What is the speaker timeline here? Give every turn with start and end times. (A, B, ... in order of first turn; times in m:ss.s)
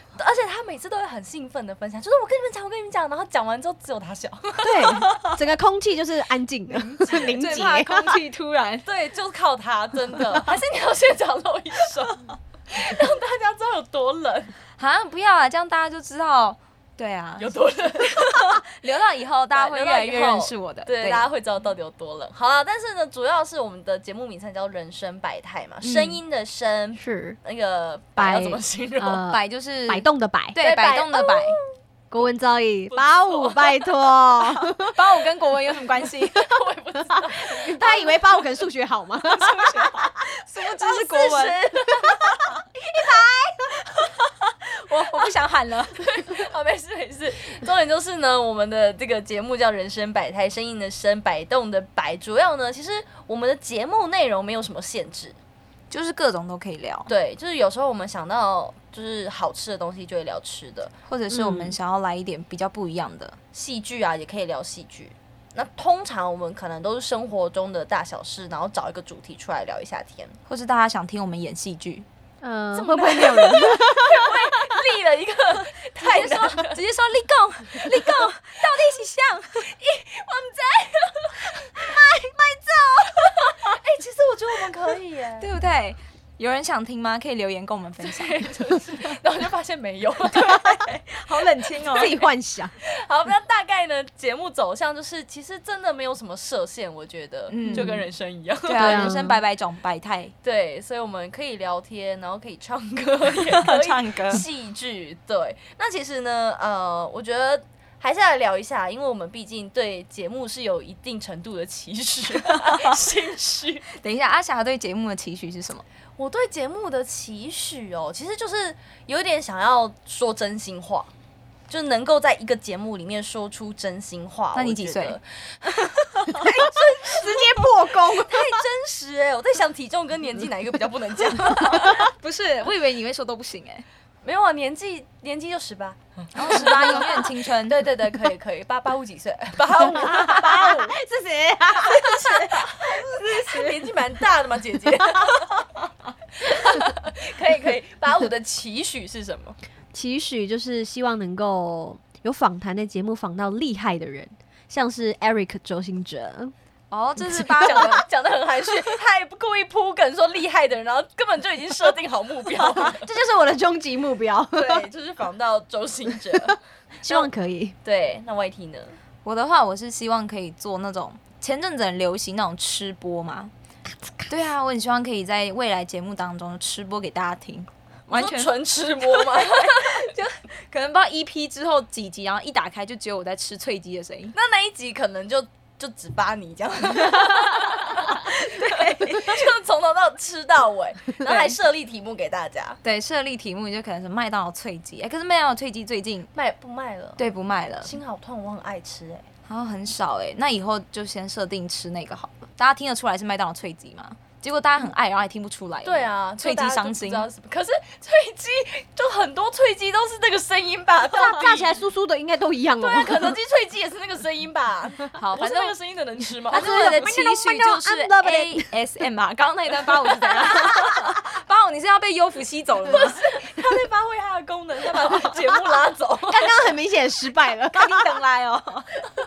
0:00.1-0:04.9 A
0:04.6-0:08.2 B
0:05.0-0:05.2 C
0:06.7-0:07.6 A
0:07.3-0:08.8 C
0:08.8-0:14.5 A
0:14.8-0:21.3 C
0:17.4-0:18.4 A
0:19.5-0:29.2 A
0:25.8-0:26.2 C
0:27.0-0:27.4 B
0:28.2-0:30.6 B
0:29.3-0:31.6 C
0:30.6-0:31.7 A
0:32.1-0:34.9 B
0:32.9-0:33.9 A
0:34.4-0:36.5 C
0:36.0-0:38.2 A
0:37.3-0:39.6 B
0:39.3-0:43.7 A
0:39.6-0:41.6 C
0:44.1-0:46.4 C
0:46.0-0:55.4 A
0:55.9-0:57.1 C
0:57.1-1:00.9 A
1:01.0-1:03.4 C
1:01.3-1:01.7 B
1:03.5-1:10.4 A
1:10.5-1:12.0 C
1:12.4-1:14.4 B
1:12.7-1:16.8 A
1:16.0-1:19.7 C
1:17.8-1:18.3 A
1:19.7-1:21.9 A
1:21.8-1:23.2 B
1:23.2-1:25.5 A
1:25.4-1:28.4 C
1:28.0-1:31.0 A
1:30.5-1:32.1 C
1:31.8-1:32.7 B
1:32.8-1:39.2 A
1:37.5-1:38.1 C
1:37.6-1:37.9 B
1:38.6-1:40.3 C
1:38.8-1:39.4 B
1:40.4-1:53.8 A
1:43.5-1:44.4 C
1:52.4-1:53.0 C
1:54.0-1:55.8 C
1:56.2-2:01.1 A
2:01.7-2:12.0 A
2:04.5-2:05.2 C
2:06.4-2:08.5 B
2:11.7-2:13.8 C
2:14.2-2:20.9 A
2:16.3-2:17.8 C
2:19.9-2:23.2 B
2:21.8-2:25.5 A
2:26.4-2:29.6 A
2:29.9-2:36.5 B
2:36.9-2:38.0 C
2:37.2-2:37.9 B
2:37.6-2:43.0 A
2:42.7-2:44.9 B
2:44.5-2:47.3 A
2:47.0-2:47.7 B
2:47.8-2:49.0 A
2:49.2-2:53.5 C
2:54.3-2:58.5 C
2:58.1-3:00.0 A
2:59.0-3:04.3 C
3:04.3-3:12.8 A
3:07.0-3:09.5 C
3:11.2-3:11.5 C
3:12.8-3:16.3 C
3:16.3-3:17.3 A
3:17.2-3:17.9 C
3:17.8-3:19.3 A
3:19.5-3:27.3 C
3:25.8-3:31.8 A
3:31.1-3:33.4 B
3:32.8-3:37.1 A
3:35.2-3:35.7 C
3:36.5-3:38.7 B
3:36.5-3:43.2 C
3:42.9-3:46.5 A
3:46.3-3:48.2 B
3:47.7-3:48.9 C